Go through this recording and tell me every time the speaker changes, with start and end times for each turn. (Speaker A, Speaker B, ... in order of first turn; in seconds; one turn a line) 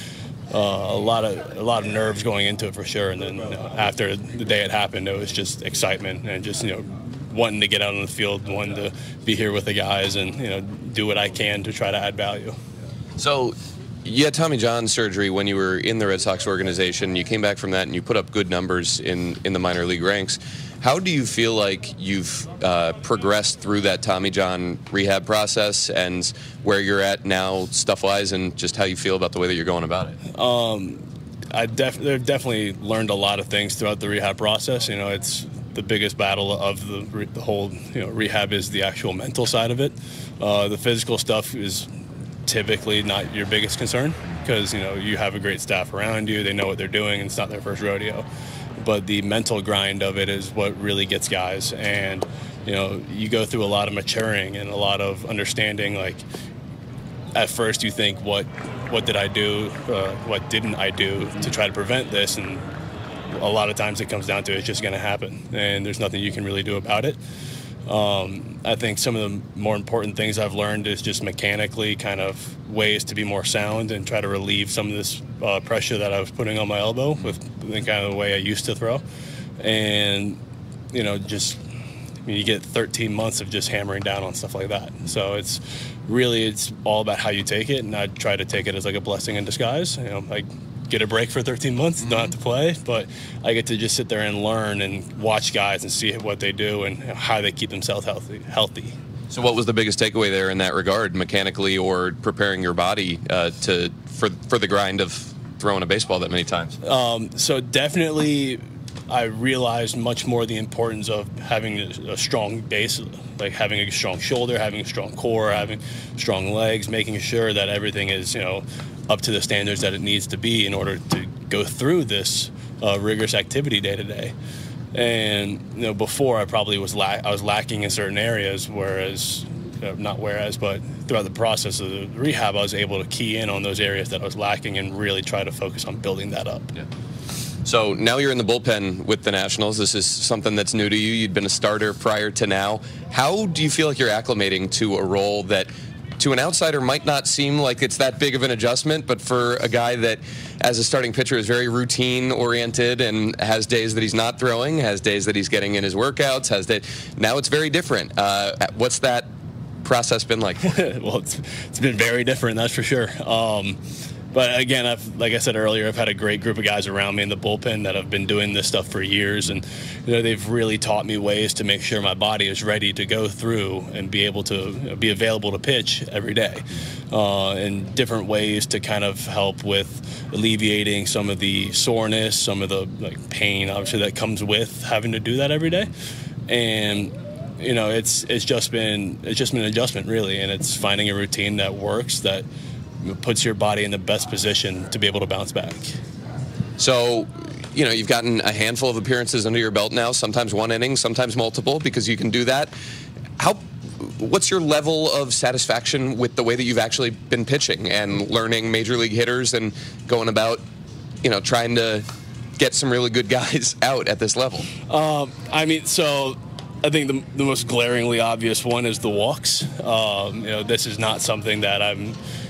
Speaker A: 0.5-12.6
Speaker B: 13.2-30.2
Speaker A: 30.3-41.9
Speaker A: 42.5-48.2
Speaker A: 48.8-56.2
Speaker A: 57.3-62.7
Speaker A: 63.3-67.2
Speaker A: 67.8-79.0
Speaker A: 79.6-80.4
Speaker A: 80.9-81.6
Speaker A: 82.2-98.9
Speaker B: 99.3-106.7
Speaker A: 106.8-124.3
Speaker A: 124.9-136.7
Speaker B: 137.6-159.3
Speaker B: 159.8-160.6
Speaker A: 160.6-163.8
Speaker A: 164.3-185.9
Speaker A: 186.5-192.5
Speaker A: 193.0-195.9
Speaker B: 196.8-202.7
Speaker B: 203.4-210.6
Speaker B: 211.2-212.1
Speaker B: 212.6-214.7
Speaker A: 214.9-222.2